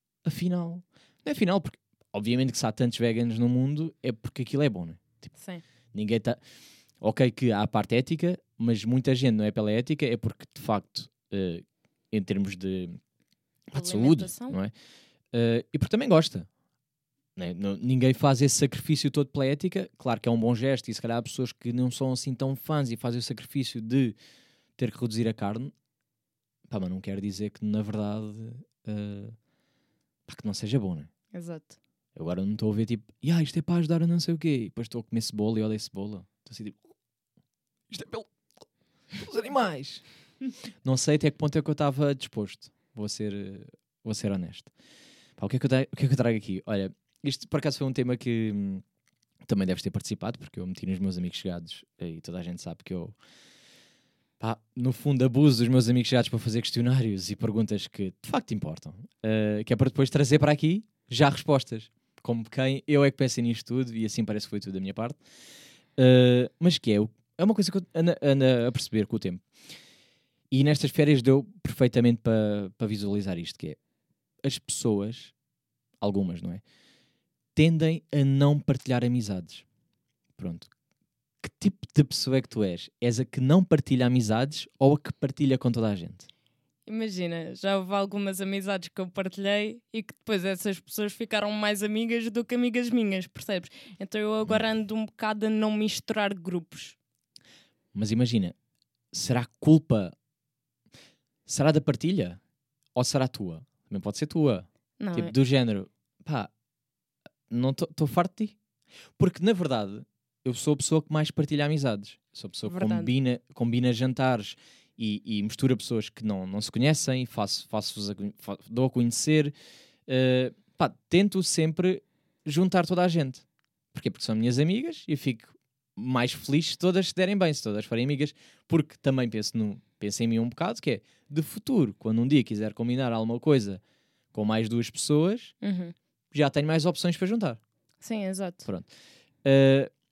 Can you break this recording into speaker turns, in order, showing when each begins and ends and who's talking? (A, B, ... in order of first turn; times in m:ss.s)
0:00.2-0:05.3 A
0:05.4-0:05.6 B
0:05.9-0:06.4 A
0:07.0-0:13.0 A
0:13.7-0:14.7 A
0:13.7-0:14.6 B
0:15.3-0:16.5 A
0:17.4-0:24.2 A
0:24.8-0:25.7 A
0:26.7-0:29.4 A
0:30.3-0:31.1 A
0:31.3-0:31.8 B
0:32.2-0:36.8 A
0:37.9-0:38.4 A
0:39.2-0:40.1 A
0:40.8-0:44.7 A
0:45.4-0:48.8 A
0:49.5-0:53.2 A
0:54.4-1:05.2 A
1:06.0-1:09.4 A
1:10.5-1:13.8 A
1:14.4-1:15.3 A
1:16.0-1:16.6 A
1:17.6-1:19.6 A
1:20.4-1:20.7 A
1:21.4-1:26.3 A
1:26.9-1:37.0 B
1:37.9-1:38.6 A
1:39.1-1:40.2 A
1:41.5-1:42.4 A
1:43.0-1:46.5 A
1:45.0-1:45.3 B
1:47.5-1:48.6 A
1:49.2-1:59.5 A
1:52.7-1:53.1 B
2:00.1-2:13.8 A
2:14.3-2:15.5 A
2:15.6-2:15.9 B
2:16.3-2:17.6 A
2:18.0-2:18.7 B
2:18.6-2:18.9 A
2:19.4-2:19.9 A